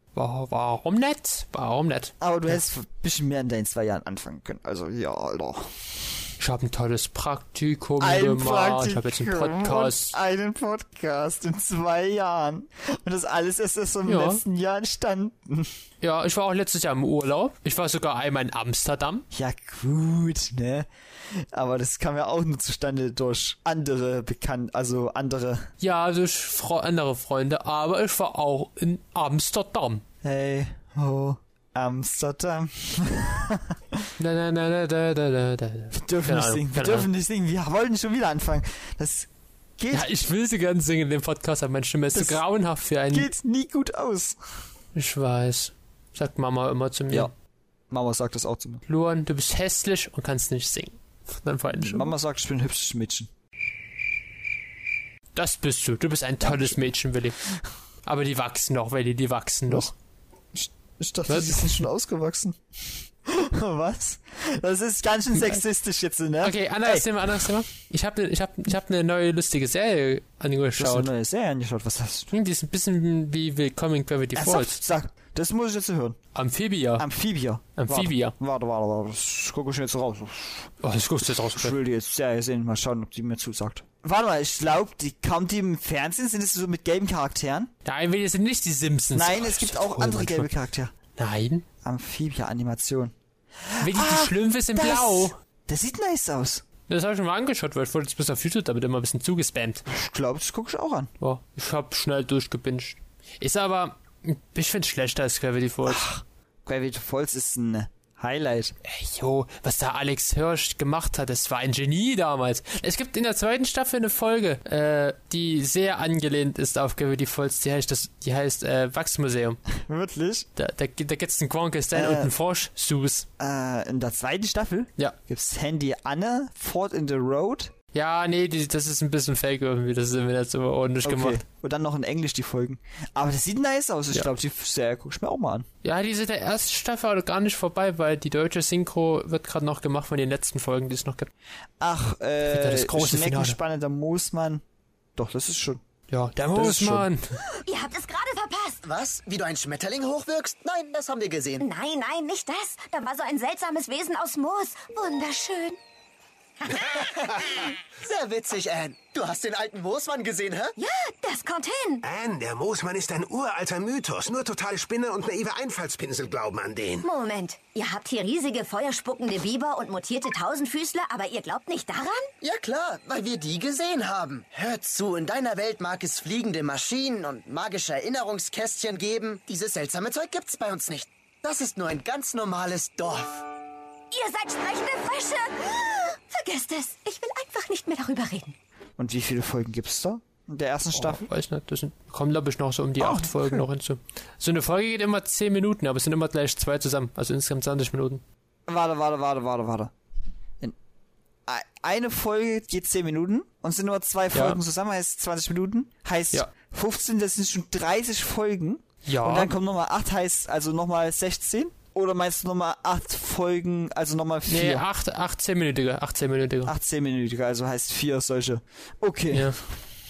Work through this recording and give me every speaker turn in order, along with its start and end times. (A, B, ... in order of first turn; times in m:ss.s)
0:00.1-0:02.6 A
0:02.2-0:06.2 B
0:06.4-0:10.2 A
0:08.0-0:15.7 B
0:14.0-0:14.4 A
0:16.0-0:19.2 A
0:19.3-0:25.7 B
0:25.8-0:30.0 A
0:30.2-0:34.1 B
0:34.2-0:37.1 A
0:35.9-0:40.1 B
0:39.9-0:43.3 A
0:42.1-0:42.4 B
0:43.1-0:44.6 B
0:44.9-0:47.3 A
0:47.9-0:48.8 B
0:48.9-0:52.1 A
0:51.8-0:53.3 B
0:55.3-0:57.4 A
0:56.4-0:56.8 B
0:58.0-0:59.9 A
1:00.5-1:07.4 B
1:01.3-1:01.8 A
1:06.4-1:11.1 A
1:10.8-1:12.3 B
1:12.3-1:14.8 A
1:14.3-1:16.2 B
1:16.3-1:17.0 A
1:17.0-1:20.7 B
1:17.8-1:18.3 A
1:20.8-1:21.8 A
1:21.4-1:27.7 B
1:27.8-1:30.5 A
1:29.1-1:30.9 B
1:31.1-1:31.6 A
1:31.8-1:36.6 B
1:33.8-1:35.4 A
1:36.9-1:39.8 A
1:39.9-1:41.1 B
1:41.2-1:46.0 A
1:45.8-1:48.7 B
1:48.8-1:59.6 A
1:59.8-2:00.5 B
2:00.6-2:03.3 A
2:01.9-2:02.3 B
2:03.4-2:07.7 B
2:07.9-2:11.4 A
2:11.0-2:15.6 B
2:15.8-2:21.3 A
2:21.8-2:24.6 B
2:22.5-2:23.6 A
2:25.2-2:25.8 B
2:26.1-2:27.4 A
2:26.5-2:27.1 B
2:27.6-2:28.8 C
2:28.8-2:31.7 D
2:31.6-2:35.8 C
2:36.6-2:36.9 C
2:36.7-2:40.7 D
2:40.8-2:42.0 C
2:42.0-2:47.0 E
2:47.0-2:52.3 C
2:52.4-3:03.4 D
3:04.1-3:08.6 C
3:09.0-3:11.2 B
3:10.9-3:18.2 A
3:13.0-3:13.6 B
3:18.7-3:19.9 B
3:21.4-3:34.8 B
3:24.3-3:24.6 A
3:29.0-3:29.5 A
3:34.5-3:36.7 A
3:36.6-3:39.6 B
3:39.3-3:39.6 A